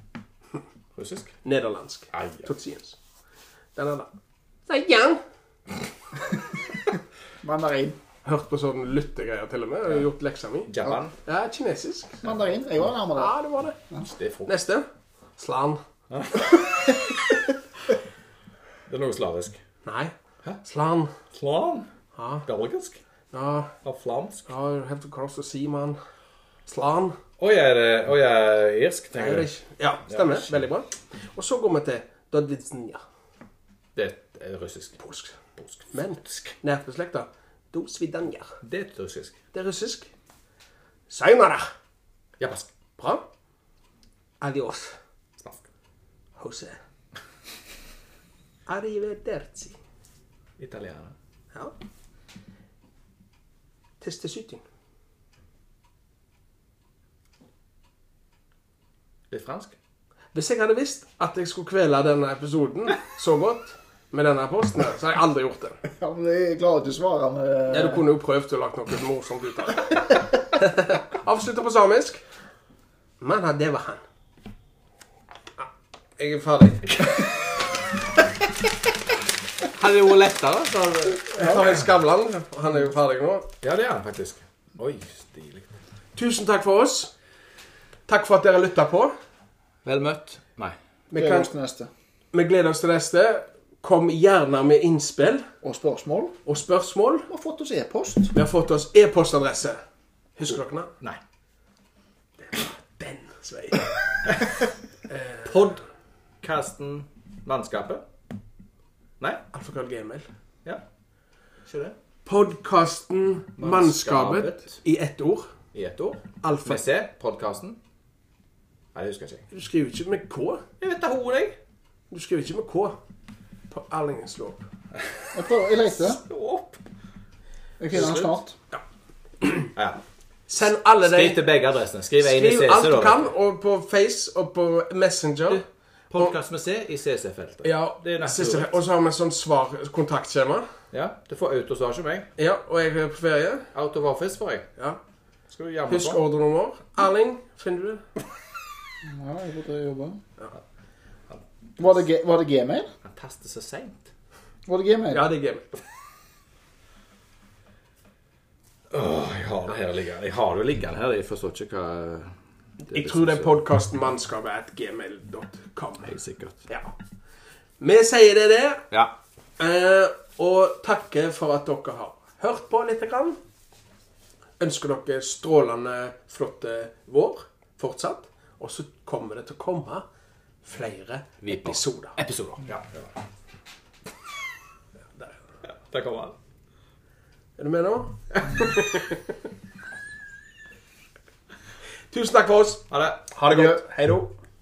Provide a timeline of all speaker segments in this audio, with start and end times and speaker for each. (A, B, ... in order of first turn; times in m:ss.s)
0:01.0-0:01.4 A
0:01.4-0:03.0 B
0:02.1-0:02.5 A
0:03.8-0:04.1 B
0:04.7-0:05.2 B
0:07.4-0:08.0 C
0:08.2-0:10.7 B
0:10.7-0:11.1 A
0:11.2-0:12.3 B
0:12.2-0:13.4 C
0:13.1-0:13.8 B
0:14.0-0:14.5 A
0:14.4-0:15.8 B
0:16.1-0:17.1 A
0:18.9-0:19.6 A
0:19.8-0:21.1 B
0:21.3-0:21.9 A
0:22.2-0:22.4 B
0:22.4-0:23.0 A
0:23.3-0:23.7 B
0:23.8-0:24.4 A
0:24.4-0:26.0 B
0:26.6-0:27.2 B
0:27.4-0:29.5 A
0:29.1-0:33.0 B
0:30.1-0:30.6 A
0:34.0-0:35.0 A
0:35.0-0:35.4 B
0:35.6-0:36.5 A
0:35.9-0:38.6 B
0:38.6-0:39.4 A
0:39.5-0:40.1 B
0:41.1-0:41.7 B
0:42.4-0:42.7 A
0:43.0-0:43.2 B
0:44.4-0:45.0 B
0:46.4-0:46.8 B
0:48.7-0:49.8 B
0:50.6-0:51.1 A
0:54.0-0:54.6 B
0:59.3-0:59.7 A
1:00.3-1:05.8 B
1:05.8-1:08.0 C
1:07.7-1:12.2 B
1:13.2-1:14.0 B
1:16.2-1:17.0 B
1:19.6-1:21.7 A
1:21.3-1:23.5 B
1:23.6-1:25.7 A
1:26.2-1:27.1 B
1:28.1-1:29.1 B
1:29.8-1:30.8 A
1:31.1-1:31.5 B
1:31.1-1:31.9 C
1:32.3-1:35.5 B
1:35.6-1:36.3 C
1:36.4-1:37.3 B
1:37.3-1:38.3 C
1:38.3-1:39.8 B
1:40.4-1:40.9 B
1:42.4-1:44.0 B
1:45.1-1:45.6 B
1:45.4-1:45.8 A
1:46.4-1:48.0 A
1:49.5-1:50.3 B
1:51.7-1:51.9 A
1:52.2-1:55.5 B
1:53.6-1:54.8 A
1:55.7-1:57.8 A
1:56.4-1:56.8 B
1:58.9-1:59.4 A
1:59.5-2:00.6 B
2:00.8-2:01.6 A
2:02.1-2:03.0 B
2:03.7-2:04.7 B
2:05.3-2:06.2 C
2:06.0-2:06.8 A
2:07.8-2:08.6 C
2:07.9-2:08.8 B
2:09.4-2:09.7 B
2:09.7-2:10.0 A
2:10.5-2:11.4 B
2:11.0-2:13.3 A
2:12.2-2:15.6 B
2:15.5-2:18.7 A
2:17.6-2:20.7 B
2:20.9-2:22.3 A
2:22.4-2:23.7 B
2:23.7-2:24.7 A
2:25.5-2:26.2 A
2:25.9-2:28.0 B
2:29.0-2:30.2 C
2:31.3-2:31.8 A
2:31.8-2:32.9 C
2:33.0-2:34.1 A
2:34.7-2:35.3 C
2:35.1-2:35.7 B
2:38.9-2:42.3 A
2:42.8-2:46.1 B
2:42.9-2:43.6 A
2:46.0-2:46.6 A
2:47.8-2:48.9 B
2:49.6-2:53.4 B
2:54.6-3:00.0 B
3:00.6-3:02.2 B
3:01.4-3:03.1 A
3:05.6-3:06.3 A
3:07.6-3:09.2 B
3:12.1-3:14.3 B
3:12.9-3:13.3 A